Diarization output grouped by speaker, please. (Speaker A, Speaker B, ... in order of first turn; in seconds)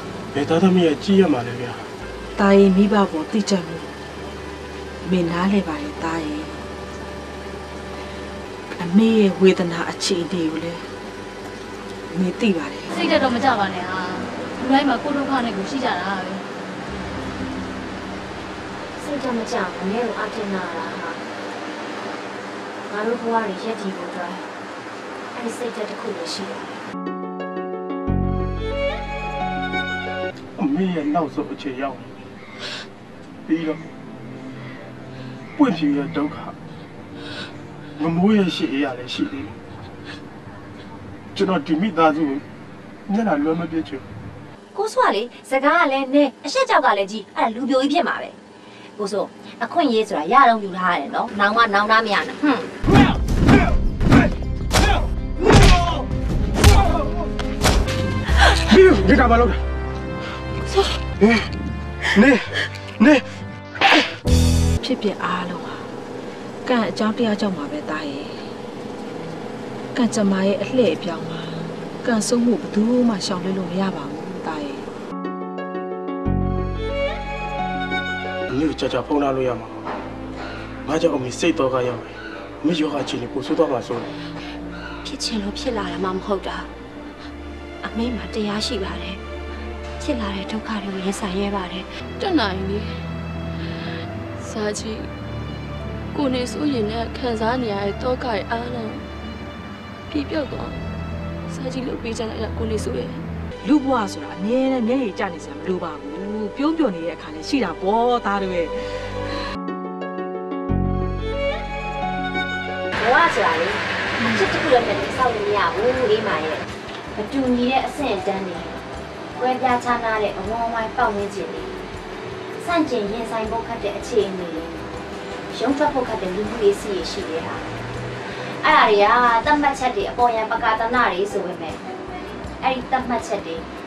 Speaker A: 0.3-1.9, 30.6-32.1, 33.5-33.8, 35.6-36.5, 38.0-39.5, 41.3-42.4, 43.1-44.0, 58.3-59.6, 61.2-61.5, 62.1-63.3, 78.5-79.9, 80.8-84.2
Speaker B: 2.4-4.0, 5.0-6.7, 8.8-10.8, 12.1-12.9, 64.8-65.9, 66.6-68.5, 69.9-74.9, 103.6-109.1
Speaker C: 12.9-16.4
Speaker D: 19.0-21.2, 22.9-24.5, 25.3-26.8, 44.7-48.4, 49.0-52.7, 85.0-86.7, 87.8-89.2, 90.0-91.9, 113.0-118.8, 119.4-121.7, 122.6-124.7, 125.5-127.6, 128.3-131.8, 132.6-133.7
Speaker E: 92.2-93.0, 94.4-95.1, 96.1-99.0, 100.1-100.8, 101.5-103.2